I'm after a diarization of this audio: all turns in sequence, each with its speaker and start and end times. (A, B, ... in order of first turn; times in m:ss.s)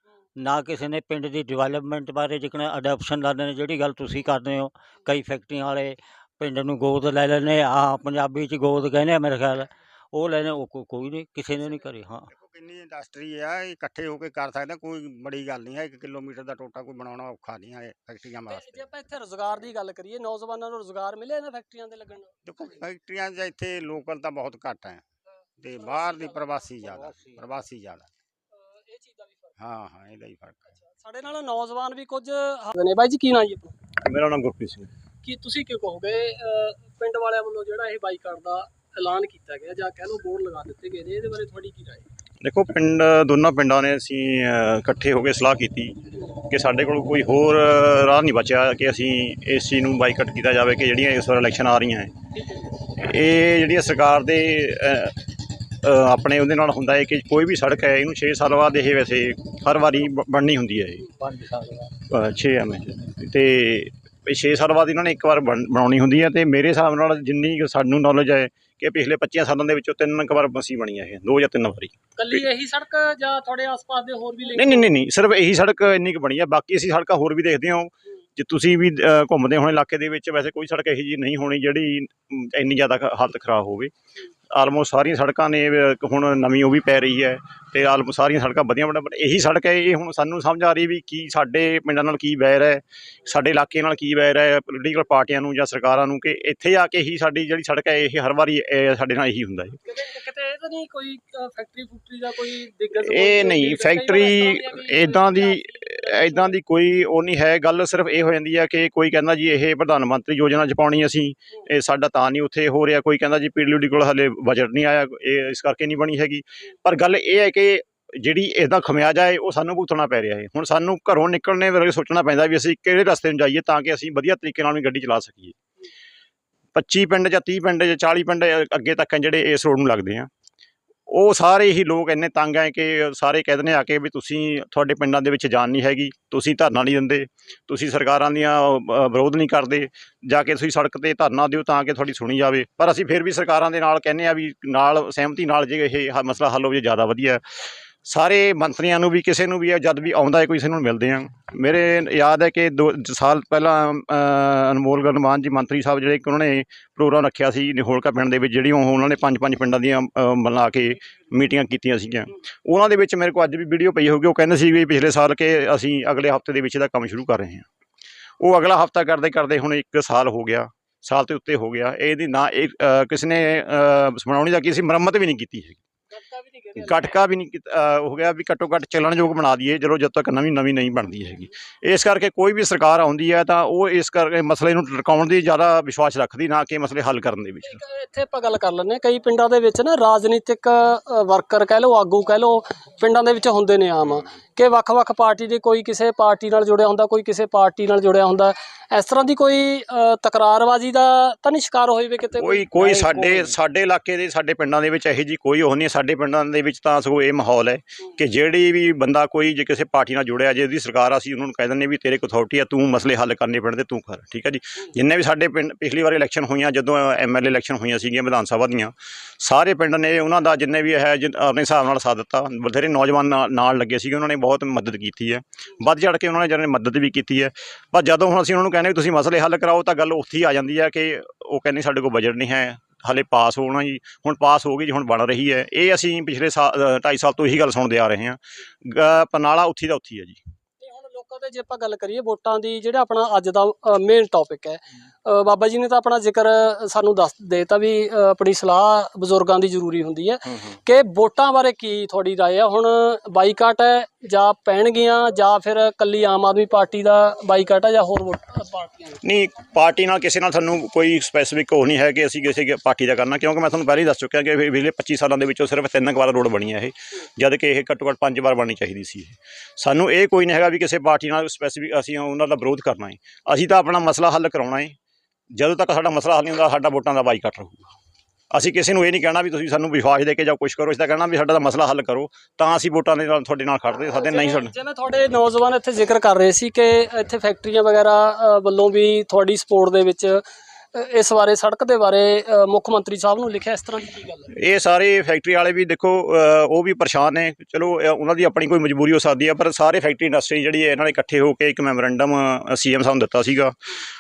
0:00.4-0:12.3 A
0:11.6-0:11.9 B
0:12.3-0:18.8 C
0:18.5-0:22.8 B
0:22.4-0:25.0 C
0:25.6-0:28.1 C
0:25.7-0:26.8 B
0:26.8-0:27.4 A
0:28.5-0:29.6 B
0:29.6-0:30.7 C
0:30.7-0:33.8 B
0:34.0-0:34.9 D
0:35.2-0:42.1 B
0:42.4-0:52.1 D
0:52.3-0:52.7 B
0:52.9-1:01.1 D
1:01.2-1:02.0 A
1:02.1-1:12.4 D
1:12.2-1:14.9 B
1:14.5-1:23.9 D
1:24.5-1:39.8 D
1:39.8-1:46.6 B
1:43.0-2:05.6 D
2:06.7-2:10.3 D
2:11.1-2:27.4 D
2:28.0-2:47.6 D
2:48.4-2:55.8 D
2:56.1-2:57.2 B
2:56.8-3:07.8 D
3:07.6-3:23.4 B
3:22.4-4:00.4 D
4:00.8-4:19.2 B
4:19.2-4:35.0 D
4:35.5-4:37.9 D
4:38.5-4:44.7 D
4:44.1-4:50.4 B
4:50.9-4:54.5 B
4:54.6-5:03.8 D